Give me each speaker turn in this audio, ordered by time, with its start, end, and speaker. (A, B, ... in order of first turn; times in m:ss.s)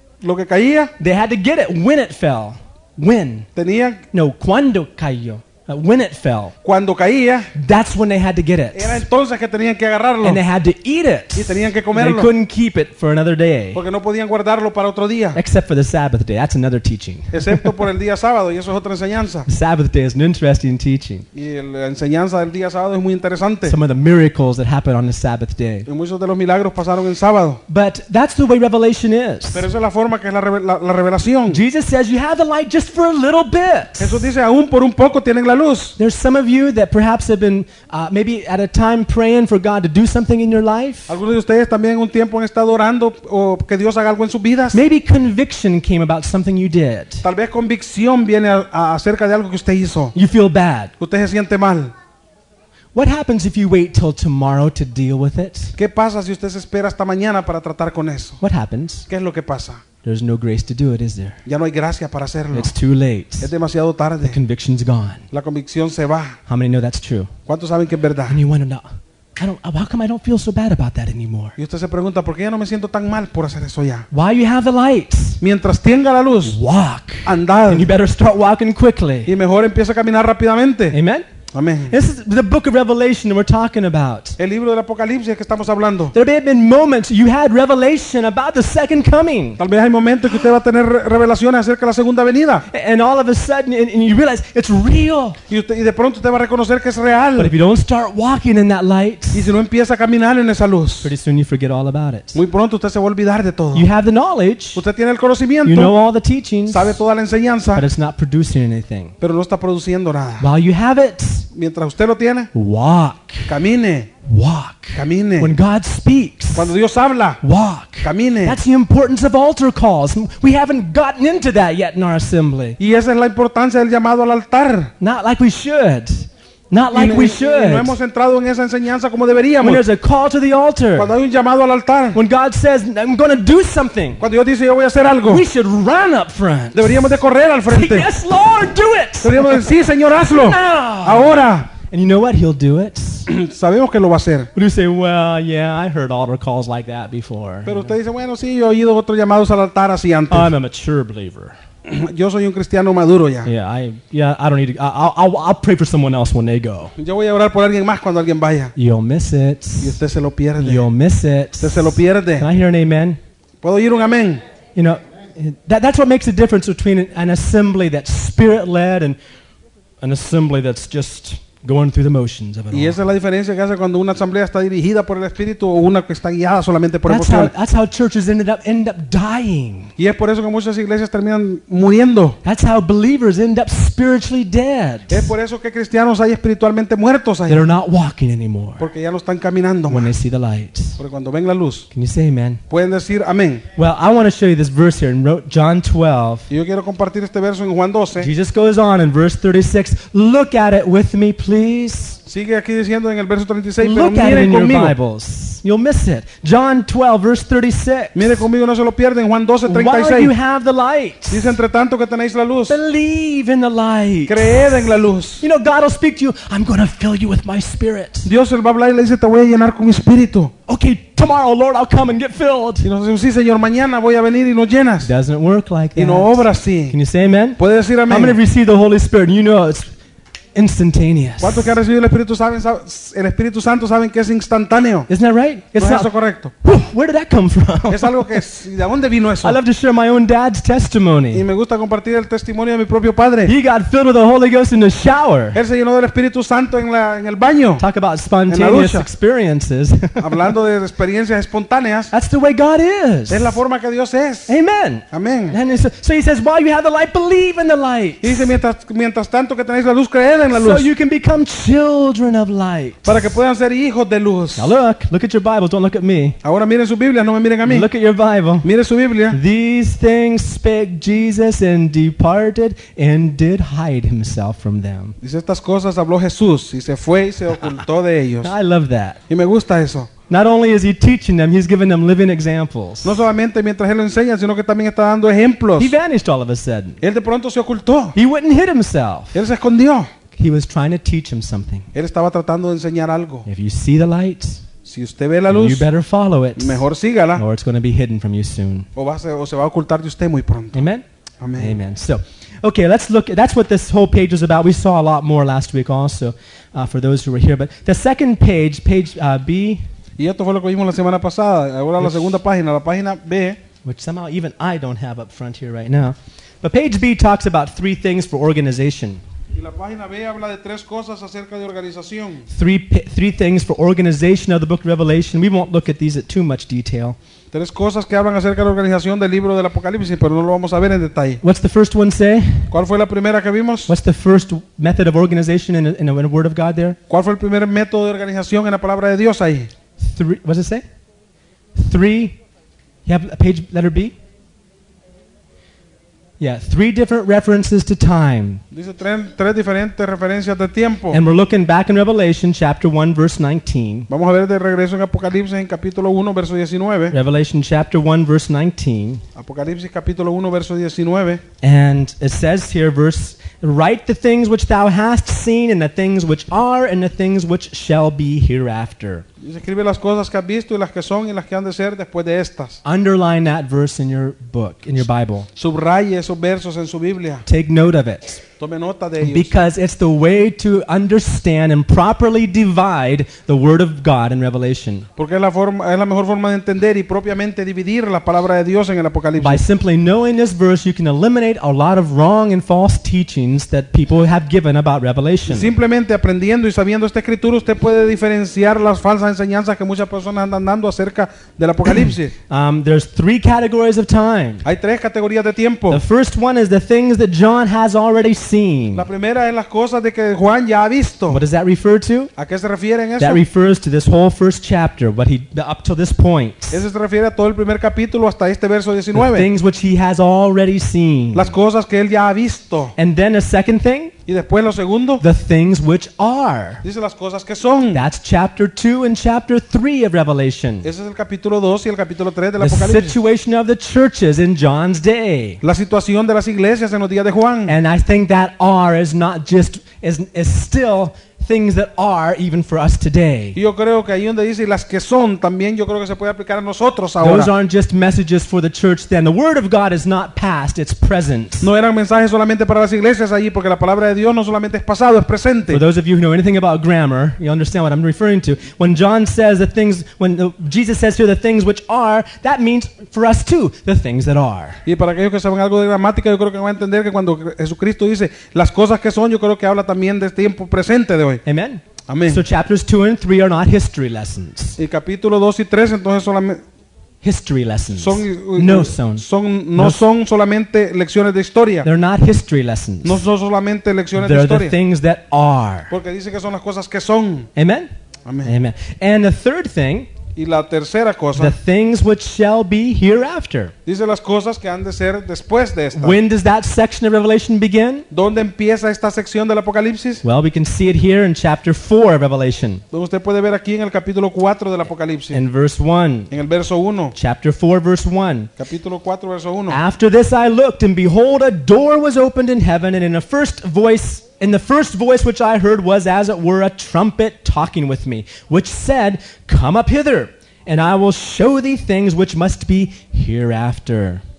0:00.2-0:00.9 A
0:01.0-0:03.5 B
0:03.6-0:04.0 A
0:04.1-0:06.5 B
0:06.6-0:07.5 A
0:07.5-0:09.0 B
0:08.7-0:10.4 A
0:10.2-0:13.8 B
0:11.4-0:12.3 A
0:13.7-0:15.4 A
0:15.3-0:17.7 B
0:17.3-0:19.5 A
0:19.5-0:21.2 B
0:21.3-0:23.8 A
0:23.6-0:25.9 B
0:25.9-0:27.6 A
0:27.7-0:29.6 B
0:29.5-0:31.6 A
0:31.5-0:34.2 B
0:34.0-0:36.0 A
0:36.0-0:41.1 B
0:41.1-0:44.8 A
0:44.7-0:47.2 B
0:47.2-0:50.1 A
0:50.1-0:50.9 B
0:51.0-0:51.9 A
0:52.9-0:55.7 B
0:55.8-0:58.4 A
0:58.4-0:59.1 B
0:59.1-0:59.8 A
1:00.0-1:01.4 B
1:01.4-1:02.7 A
1:02.5-1:03.5 B
1:03.4-1:04.4 A
1:04.2-1:05.2 B
1:05.3-1:06.4 A
1:06.5-1:07.3 B
1:07.5-1:08.4 A
1:08.3-1:08.9 B
1:09.4-1:11.6 B
1:11.6-1:14.0 A
1:14.1-1:15.4 B
1:15.4-1:16.6 A
1:16.4-1:19.3 B
1:17.2-1:17.9 A
1:19.2-1:21.0 A
1:20.9-1:21.2 B
1:21.5-1:21.9 A
1:21.9-1:24.4 B
1:24.4-1:26.1 A
1:26.1-1:29.6 B
1:29.6-1:32.6 A
1:32.7-1:35.4 B
1:35.5-1:37.5 A
1:37.4-1:39.5 B
1:39.3-1:41.1 A
1:41.0-1:42.4 B
1:42.3-1:43.9 A
1:43.7-1:44.8 B
1:44.7-1:45.9 A
1:45.6-1:47.0 B
1:46.7-1:47.8 A
1:47.7-1:49.1 B
1:49.2-1:50.5 A
1:50.4-1:51.5 B
1:51.5-1:52.5 A
1:52.5-1:53.5 B
1:53.5-1:54.1 A
1:54.2-1:56.7 B
1:55.0-1:55.5 A
1:56.5-1:57.4 A
1:57.4-2:02.8 B
1:58.0-1:58.6 A
2:02.8-2:04.9 A
2:05.0-2:07.9 B
2:06.9-2:09.8 A
2:09.6-2:11.1 B
2:11.0-2:12.2 A
2:12.1-2:14.2 B
2:14.2-2:15.4 A
2:15.3-2:17.1 B
2:16.7-2:18.1 A
2:17.7-2:19.7 B
2:19.2-2:21.7 A
2:20.2-2:23.3 B
2:23.3-2:24.5 A
2:24.5-2:27.9 B
2:27.6-2:30.5 A
2:30.3-2:31.6 B
2:31.8-2:33.5 A
2:33.4-2:36.9 B
2:37.0-2:38.7 A
2:38.8-2:40.0 B
2:39.8-2:40.9 A
2:40.6-2:43.2 B
2:41.6-2:42.5 A
2:43.6-2:44.4 A
2:44.8-2:49.2 B
2:50.0-2:53.0 B
2:52.7-2:57.5 A
2:57.0-2:59.9 B
3:00.0-3:02.4 A
3:02.4-3:05.3 B
3:05.1-3:07.6 A
3:07.5-3:08.9 B
3:08.8-3:10.1 A
3:09.9-3:11.0 B
3:11.0-3:11.9 A
3:11.9-3:12.6 B
3:12.7-3:13.6 A
3:13.8-3:16.5 B
3:16.5-3:18.3 A
3:18.2-3:22.2 B
3:22.3-3:25.0 A
3:23.8-3:28.4 B
3:28.1-3:30.4 A
3:29.7-3:31.6 B
3:31.3-3:32.8 A
3:32.7-3:38.3 B
3:34.3-3:35.4 A
3:38.2-3:40.5 A
3:40.7-3:42.9 B
3:42.8-3:45.1 A
3:45.0-3:49.9 B
3:46.0-3:47.0 A
3:47.6-3:48.4 A
3:50.5-3:51.8 B
3:51.4-3:55.1 A
3:55.1-3:56.1 B
3:55.8-3:56.5 A
3:56.6-3:58.4 B
3:57.9-3:59.6 A
3:59.4-4:01.4 B
4:01.3-4:03.5 A
4:03.4-4:05.6 B
4:05.5-4:07.8 A
4:07.8-4:10.5 B
4:08.5-4:09.0 A
4:10.2-4:12.1 A
4:12.1-4:13.6 B
4:13.3-4:14.5 A
4:14.5-4:18.5 B
4:15.1-4:15.6 A
4:18.2-4:20.9 A
4:20.5-4:23.4 B
4:23.0-4:24.7 A
4:24.6-4:26.4 B
4:26.4-4:27.9 A
4:27.6-4:28.7 B
4:28.6-4:29.4 A
4:29.3-4:35.2 B
4:35.2-4:38.5 A
4:38.4-4:39.2 B
4:39.3-4:40.1 A
4:40.3-4:43.2 B
4:43.0-4:46.0 A
4:45.8-4:47.0 B
4:47.0-4:48.2 A
4:48.1-4:49.4 B
4:49.3-4:50.1 A
4:50.3-4:51.9 B
4:51.9-4:53.5 A
4:53.4-4:54.6 B
4:54.8-4:55.9 A
4:55.5-4:58.9 B
4:56.6-4:57.4 A
4:59.0-5:00.8 A
5:00.7-5:01.0 B
5:01.4-5:01.8 A
5:01.6-5:09.8 B
5:10.2-5:13.6 A
5:12.0-5:12.4 B
5:13.8-5:19.2 B
5:19.5-5:22.4 A
5:22.5-5:27.2 B
5:27.5-5:31.4 A
5:31.4-5:32.7 B
5:32.7-5:33.9 A
5:33.9-5:37.0 B
5:37.1-5:39.7 A
5:40.0-5:40.8 B
5:41.7-5:42.4 B
5:43.0-5:44.1 B
5:46.4-5:48.6 B
5:48.7-5:51.2 A
5:51.1-5:54.1 B
5:54.1-5:57.2 A
5:57.1-5:59.2 B
5:59.4-6:01.4 A
6:01.6-6:09.2 B
6:09.4-6:12.8 A
6:12.8-6:15.5 B
6:15.6-6:17.4 A
6:17.4-6:18.4 B
6:18.6-6:19.6 A
6:19.2-6:25.1 B
6:25.2-6:29.6 A
6:29.4-6:35.7 B
6:35.5-6:42.3 A
6:42.5-6:44.6 B
6:44.6-6:46.0 A
6:45.9-6:49.1 B
6:48.9-6:51.4 A
6:51.3-6:52.3 B
6:52.4-6:53.4 A
6:53.2-6:56.8 B
6:56.7-6:59.5 A
6:59.1-7:01.5 B
7:01.3-7:02.9 A
7:03.0-7:04.1 B
7:04.3-7:05.2 A
7:05.2-7:06.8 B
7:06.8-7:08.0 A
7:07.9-7:10.9 B
7:10.8-7:13.2 A
7:12.6-7:15.6 B
7:15.6-7:17.7 A
7:17.7-7:23.6 B
7:23.6-7:27.5 A
7:27.2-7:31.7 B
7:31.6-7:35.8 A
7:35.7-7:44.8 B
7:44.8-7:51.4 A
7:51.4-7:54.8 B
7:52.1-7:52.4 A
7:54.8-7:56.6 A
7:57.2-7:59.2 B
7:58.0-8:01.9 A
7:59.8-8:00.0 B
8:01.8-8:03.2 B
8:03.0-8:04.8 A
8:04.2-8:05.9 B
8:05.9-8:07.5 A
8:07.6-8:07.9 B
8:08.2-8:08.5 A
8:08.4-8:10.1 B
8:10.4-8:11.5 A
8:11.4-8:13.7 B
8:13.8-8:16.2 A
8:16.0-8:18.0 B
8:18.1-8:20.2 A
8:20.2-8:22.8 B
8:22.9-8:25.4 A
8:25.3-8:26.3 B
8:26.3-8:27.1 A
8:27.2-8:28.5 B
8:28.6-8:29.8 A
8:29.7-8:44.2 B